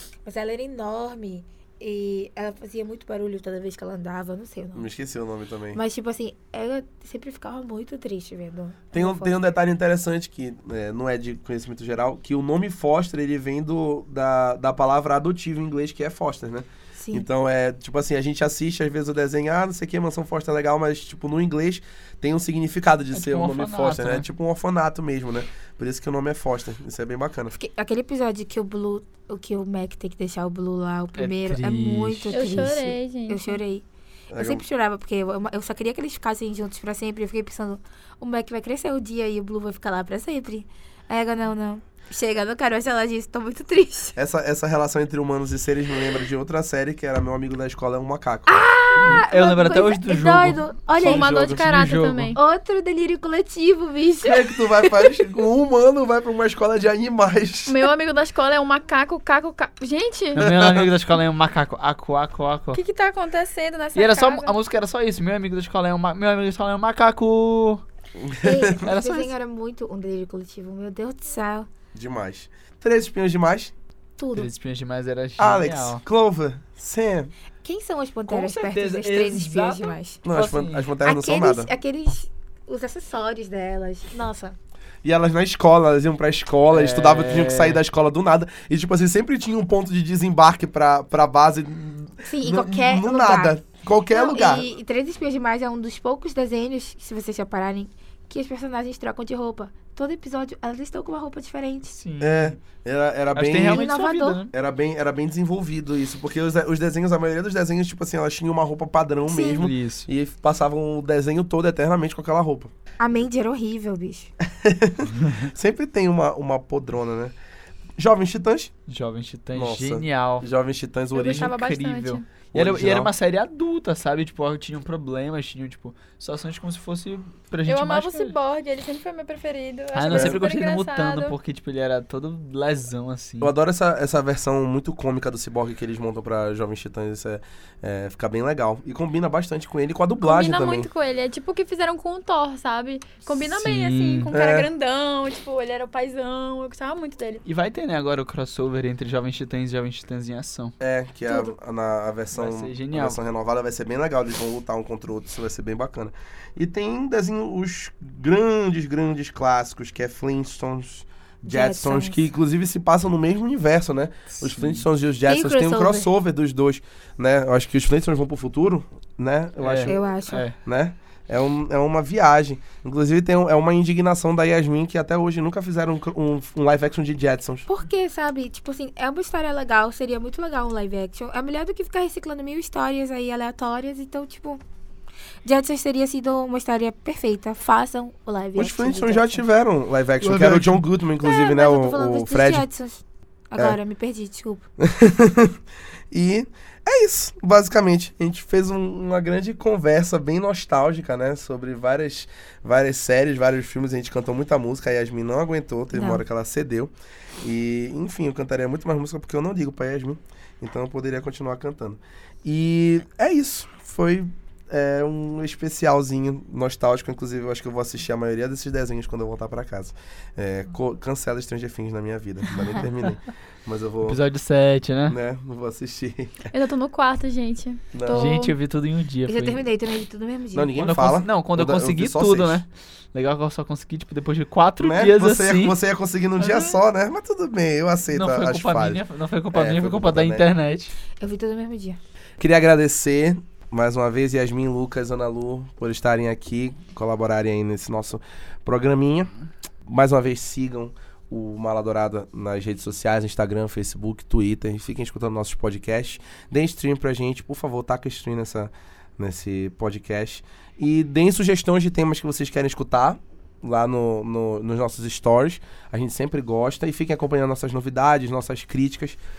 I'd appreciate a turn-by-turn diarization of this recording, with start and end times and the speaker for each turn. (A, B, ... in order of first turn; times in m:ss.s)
0:00.2-0:04.9 A
0:04.7-0:05.8 B
0:05.7-0:09.4 A
0:08.9-0:27.5 B
0:17.0-0:17.2 A
0:23.1-0:24.2 C
0:27.5-0:44.2 A
0:31.2-0:32.6 C
0:32.3-0:33.6 D
0:34.3-0:34.6 B
0:44.2-0:49.2 B
0:48.5-0:51.3 A
0:49.0-0:52.4 C
0:51.0-0:52.4 D
0:51.2-0:51.7 B
0:52.3-0:55.1 A
0:54.2-0:57.9 B
0:57.6-1:00.5 D
1:00.3-1:02.8 C
1:00.4-1:00.9 B
1:02.7-1:04.5 D
1:03.9-1:07.8 C
1:08.2-1:08.9 B
1:08.4-1:11.7 A
1:08.8-1:09.3 C
1:11.9-1:13.7 B
1:14.2-1:14.5 A
1:14.3-1:16.0 C
1:15.4-1:17.3 B
1:17.6-1:20.2 A
1:18.3-1:20.9 C
1:20.2-1:21.7 B
1:21.0-1:24.6 A
1:25.0-1:34.7 B
1:26.7-1:27.8 C
1:32.2-1:33.6 A
1:34.1-1:41.9 A
1:41.9-1:42.6 C
1:42.2-1:43.8 B
1:43.3-1:44.5 C
1:43.7-1:44.4 A
1:44.5-1:52.7 B
1:49.3-1:49.6 A
1:49.5-1:50.1 C
1:53.0-1:54.3 A
1:54.4-1:57.3 B
1:58.0-1:58.7 B
1:58.9-2:00.4 C
1:59.5-2:01.5 B
2:01.1-2:02.3 D
2:01.2-2:08.3 C
2:02.5-2:03.1 B
2:07.7-2:11.3 D
2:09.9-2:13.5 C
2:10.1-2:10.4 B
2:13.4-2:20.9 B
2:20.2-2:27.4 D
2:23.4-2:24.3 C
2:24.3-2:24.7 B
2:27.4-2:30.7 C
2:30.8-2:50.0 B
2:32.3-2:33.2 C
2:41.4-2:42.2 A
2:44.4-2:44.8 C
2:45.2-2:46.1 A
2:49.6-2:50.5 C
2:49.8-2:50.4 A
2:50.6-2:57.6 B
2:57.7-3:04.6 A
3:05.4-3:09.4 A
3:08.6-3:12.7 B
3:10.2-3:10.8 C
3:11.2-3:14.6 A
3:14.8-3:15.6 B
3:16.1-3:44.2 B
3:25.9-3:26.2 A
3:44.0-3:45.2 C
3:45.1-3:46.5 B
3:46.5-3:47.8 D
3:47.9-3:48.3 B
3:48.1-3:48.5 A
3:48.1-3:49.6 C
3:49.2-3:50.9 A
3:50.5-3:52.6 B
3:50.8-3:55.8 C
3:54.8-3:59.0 B
3:56.4-3:56.8 C
3:58.1-4:00.9 C
3:59.5-4:00.4 B
4:01.2-4:02.0 A
4:02.4-4:09.3 B
4:09.8-4:29.2 B